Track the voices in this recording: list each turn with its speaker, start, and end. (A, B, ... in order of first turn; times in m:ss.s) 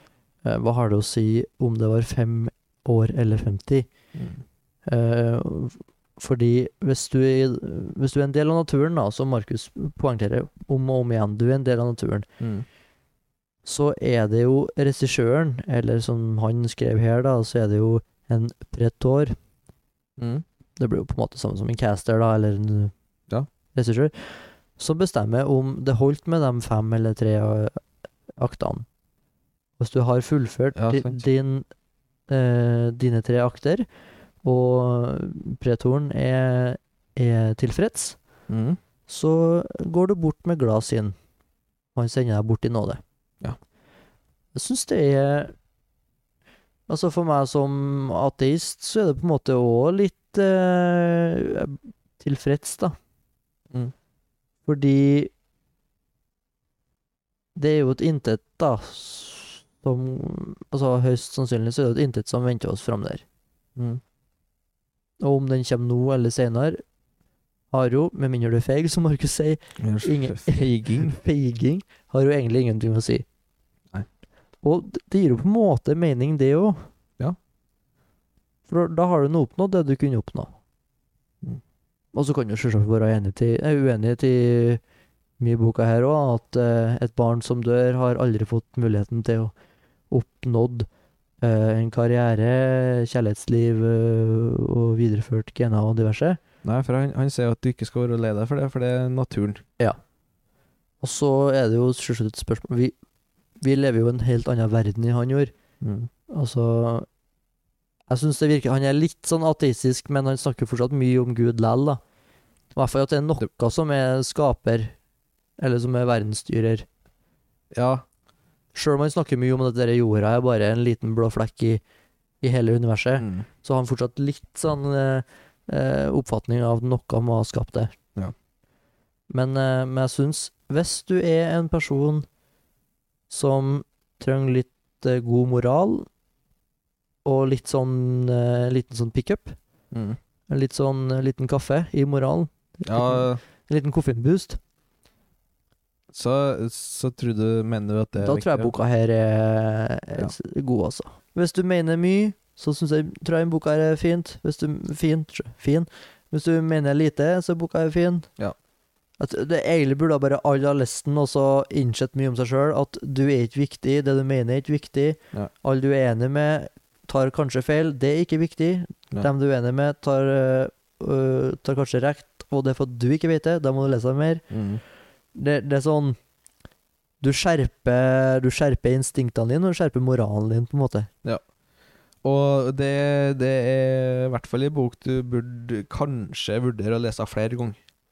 0:00.4-0:03.9 A
0:04.9-0:12.3 A
0:13.6-0:19.3 A
0:20.2-0:20.4 B
0:20.8-0:22.9 A
0:23.7-0:27.8 A
0:28.4-0:28.8 A
0:29.8-0:31.7 A
0:30.7-0:31.2 B
0:32.3-0:33.8 A
0:34.4-0:38.2 A
0:38.5-0:38.8 B
0:39.1-0:41.1 A
0:41.9-0:43.0 A
0:44.5-0:45.5 A
0:46.9-0:53.0 A
0:54.6-0:55.3 A
0:57.6-1:03.2 A
1:05.2-1:06.8 A
1:07.7-1:13.2 A
1:09.8-1:11.2 B
1:14.6-1:16.9 A
1:18.7-1:20.5 A
1:22.1-1:24.8 A
1:25.4-1:29.5 A
1:30.1-1:30.9 A
1:31.4-1:36.4 A
1:36.6-1:39.6 B
1:41.0-1:43.0 A
1:43.6-1:45.5 A
1:45.8-1:46.1 B
1:46.3-1:47.1 A
1:48.1-1:52.0 A
1:52.7-1:54.9 A
1:55.6-1:56.8 A
1:57.7-1:58.0 B
1:58.7-2:01.8 A
2:02.4-2:07.9 A
2:03.2-2:03.4 B
2:09.3-2:12.2 A
2:13.3-2:16.1 A
2:17.2-2:19.6 A
2:19.9-2:20.2 B
2:20.5-2:24.6 A
2:22.8-2:23.4 B
2:26.1-2:28.7 B
2:28.2-2:38.3 A
2:39.2-2:54.4 A
2:54.5-2:54.8 B
2:55.3-2:56.2 A
2:57.2-3:01.1 A
3:02.2-3:07.8 B